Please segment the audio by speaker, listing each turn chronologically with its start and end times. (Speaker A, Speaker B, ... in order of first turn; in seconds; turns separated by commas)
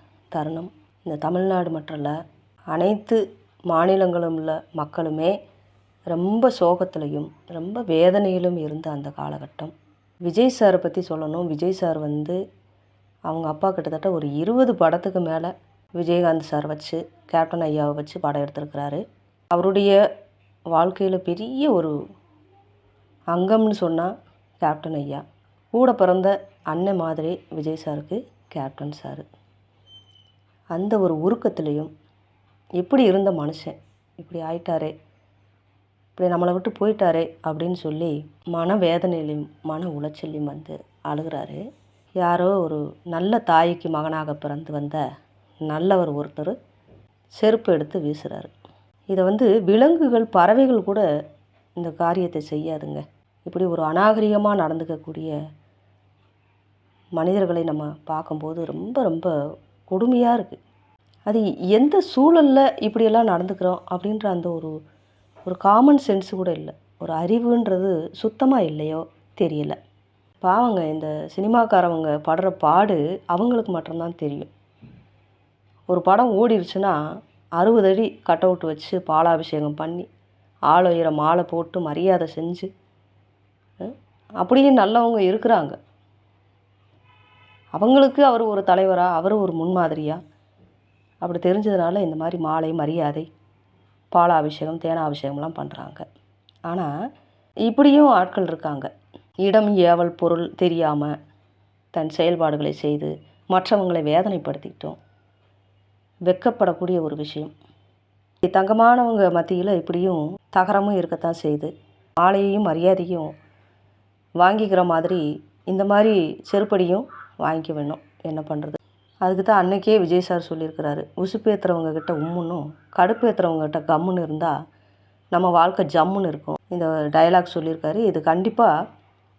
Speaker A: 0.3-2.1, Speaker A: 2.7-5.3, Speaker A: 6.1-9.7, Speaker A: 10.2-12.4, Speaker A: 13.3-19.0, Speaker A: 19.5-20.0, Speaker A: 20.7-21.9, Speaker A: 23.3-29.2, Speaker A: 30.7-31.9, Speaker A: 32.8-34.9, Speaker A: 36.2-41.6, Speaker A: 42.2-45.0, Speaker A: 45.7-46.5, Speaker A: 47.4-48.5, Speaker A: 49.1-51.0, Speaker A: 51.8-55.3, Speaker A: 57.1-59.3, Speaker A: 59.9-60.6, Speaker A: 61.2-64.8, Speaker A: 65.5-69.8, Speaker A: 70.4-74.5, Speaker A: 75.9-77.0, Speaker A: 77.6-80.0, Speaker A: 80.7-82.7, Speaker A: 83.8-85.8, Speaker A: 87.7-90.2, Speaker A: 91.2-93.3, Speaker A: 94.1-96.0, Speaker A: 96.7-96.9, Speaker A: 97.7-98.9, Speaker A: 99.4-101.1, Speaker A: 101.9-105.0, Speaker A: 106.3-107.5, Speaker A: 108.4-113.3, Speaker A: 114.4-124.5, Speaker A: 125.3-128.7